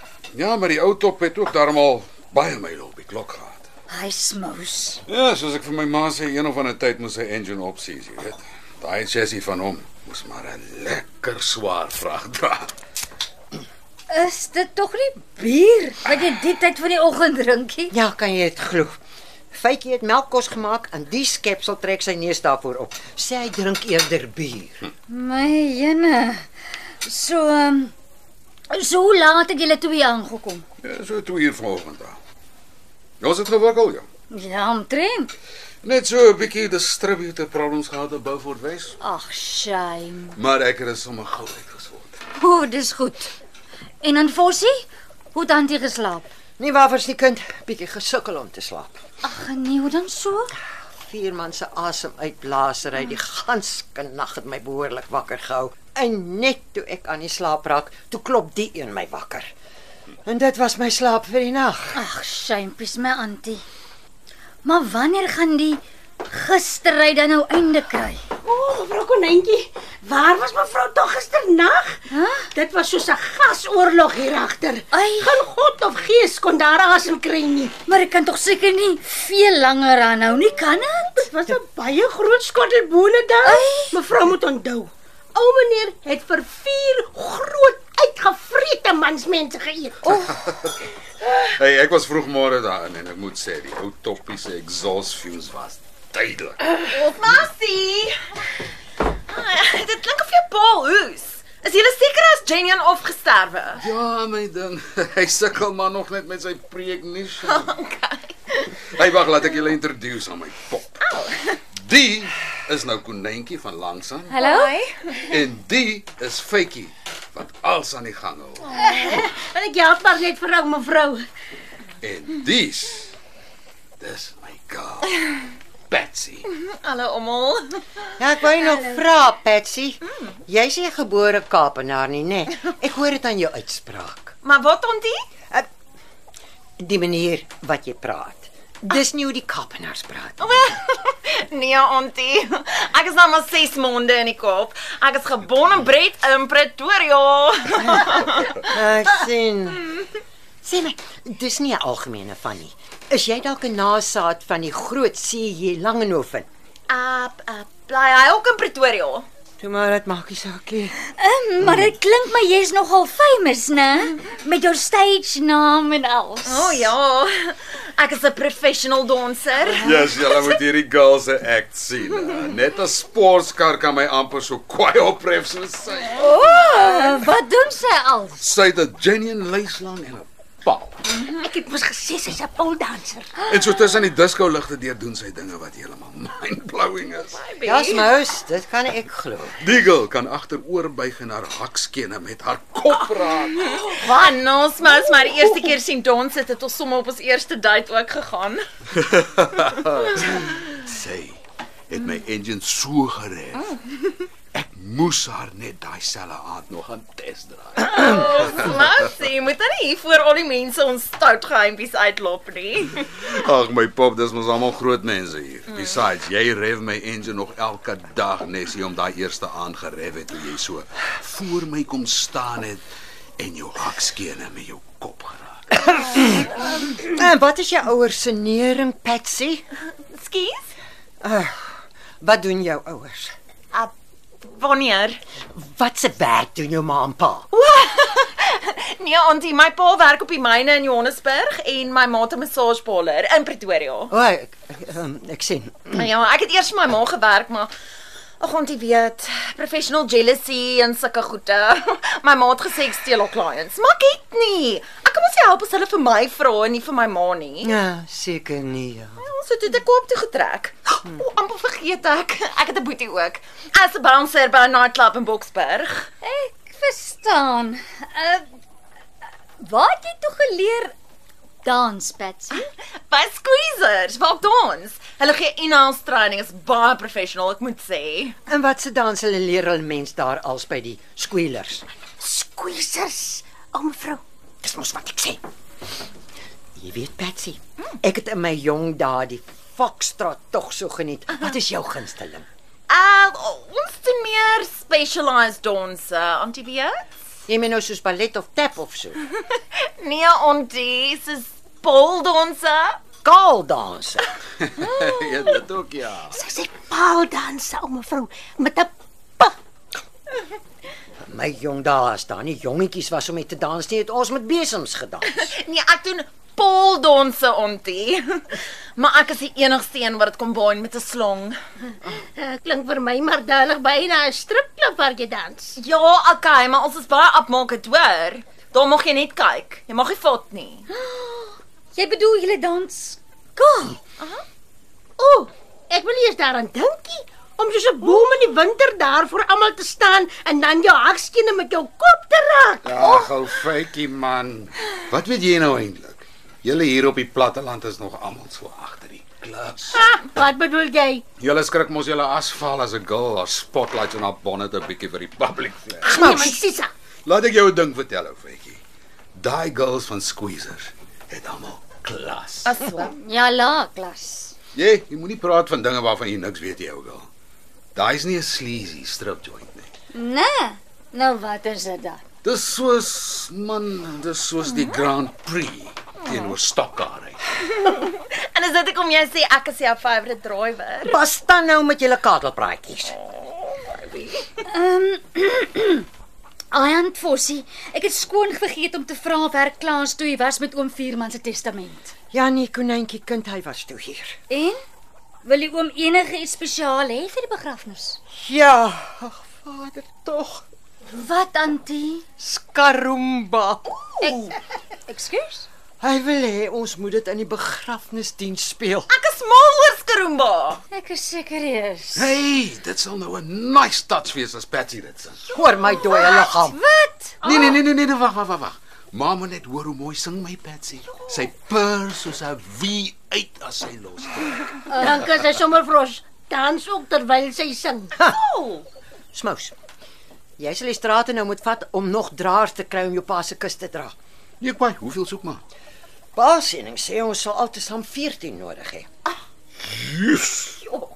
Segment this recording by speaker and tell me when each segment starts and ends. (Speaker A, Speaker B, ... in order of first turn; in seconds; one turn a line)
Speaker A: 0.3-3.6
Speaker B: 3.9-5.0
Speaker A: 5.1-12.7
Speaker B: 14.1-17.9
Speaker C: 17.9-19.0
Speaker C: 19.5-24.8
Speaker B: 25.1-26.4
Speaker B: 27.0-27.9
Speaker B: 28.7-30.6
Speaker A: 30.8-32.1
Speaker A: 33.2-34.0
Speaker B: 34.3-35.3
Speaker A: 35.8-39.0
Speaker B: 39.0-40.4
Speaker A: 40.4-42.1
Speaker B: 42.4-43.3
Speaker B: 44.0-46.2
Speaker C: 46.6-49.0
Speaker B: 49.2-50.5
Speaker C: 51.1-59.5
Speaker C: 60.2-62.0
Speaker B: 61.9-63.6
Speaker B: 64.6-68.2
Speaker D: 68.4-72.0
Speaker B: 72.1-72.5
Speaker D: 72.5-77.7
Speaker B: 74.9-75.3
Speaker B: 77.9-81.2
Speaker D: 81.2-90.3
Speaker B: 83.4-83.9
Speaker A: 90.3-90.7
Speaker A: 91.4-96.7
Speaker E: 96.8-98.2
Speaker E: 99.3-103.8
Speaker A: 103.8-107.7
Speaker E: 107.4-108.7
Speaker A: 108.9-111.0
Speaker E: 111.1-111.6
Speaker A: 111.8-114.3
Speaker B: 114.3-114.7
Speaker E: 114.3-115.2
Speaker A: 115.2-118.8
Speaker D: 118.7-121.2
Speaker A: 122.0-123.1
Speaker A: 124.0-125.2
Speaker A: 125.9-126.5
Speaker E: 126.5-127.8
Speaker C: 128.2-134.3
Speaker E: 134.4-135.2
Speaker C: 136.8-140.7
Speaker E: 140.4-148.5
Speaker C: 148.6-149.9
Speaker C: 150.6-156.5
Speaker E: 156.9-159.3
Speaker C: 159.6-160.9
Speaker B: 161.2-166.9
Speaker E: 166.4-169.9
Speaker A: 169.8-176.2
Speaker B: 176.2-178.4
Speaker A: 178.4-181.0
Speaker D: 181.4-183.3
Speaker A: 183.5-187.4
Speaker E: 187.2-188.1
Speaker C: 187.6-189.6
Speaker A: 189.6-194.0
Speaker E: 193.6-198.6
Speaker A: 199.0-203.7
Speaker A: 204.5-208.7
Speaker E: 207.8-213.1
Speaker A: 213.2-222.8
Speaker A: 223.4-225.8
Speaker C: 226.1-229.6
Speaker E: 230.1-230.7
Speaker C: 231.2-233.3
Speaker E: 233.7-235.2
Speaker C: 235.5-237.5
Speaker E: 237.5-244.1
Speaker C: 244.1-246.0
Speaker E: 245.9-247.7
Speaker E: 248.4-257.7
Speaker C: 257.6-259.2
Speaker E: 259.2-266.1
Speaker B: 266.2-268.4
Speaker B: 269.6-270.9
Speaker B: 271.6-272.7
Speaker E: 273.1-278.4
Speaker C: 278.5-281.9
Speaker D: 282.2-284.2
Speaker C: 284.6-285.4
Speaker C: 286.8-292.5
Speaker E: 292.9-297.0
Speaker C: 297.5-299.2
Speaker E: 300.0-303.0
Speaker C: 303.2-304.3
Speaker A: 304.6-306.4
Speaker D: 306.3-309.6
Speaker C: 311.2-315.5
Speaker E: 315.3-321.6
Speaker D: 322.4-325.8
Speaker E: 325.8-330.8
Speaker B: 330.9-334.0
Speaker D: 335.2-343.3
Speaker A: 342.8-350.1
Speaker D: 349.9-351.2
Speaker A: 351.4-356.1
Speaker D: 356.0-356.9
Speaker C: 356.1-356.6
Speaker A: 357.2-358.8
Speaker A: 359.4-362.7
Speaker E: 362.6-363.1
Speaker B: 363.0-364.5
Speaker A: 364.7-367.3
Speaker A: 367.9-369.9
Speaker B: 370.1-372.2
Speaker A: 372.4-377.4
Speaker E: 374.7-375.0
Speaker E: 377.8-381.2
Speaker C: 381.1-383.1
Speaker E: 383.9-384.4
Speaker B: 384.7-386.1
Speaker B: 386.7-392.1
Speaker C: 392.3-394.4
Speaker B: 394.5-394.8
Speaker B: 395.4-398.2
Speaker C: 398.3-400.6
Speaker B: 401.1-402.2
Speaker C: 402.4-404.4
Speaker B: 404.2-404.6
Speaker B: 405.1-405.6
Speaker C: 406.0-409.1
Speaker E: 409.1-410.8
Speaker B: 410.9-412.3
Speaker A: 412.1-415.5
Speaker C: 415.5-416.8
Speaker B: 416.0-417.8
Speaker A: 417.4-424.8
Speaker D: 424.9-428.1
Speaker E: 428.3-428.8
Speaker C: 429.3-429.8
Speaker C: 430.6-434.1
Speaker A: 434.6-435.6
Speaker C: 436.3-439.1
Speaker A: 439.8-440.8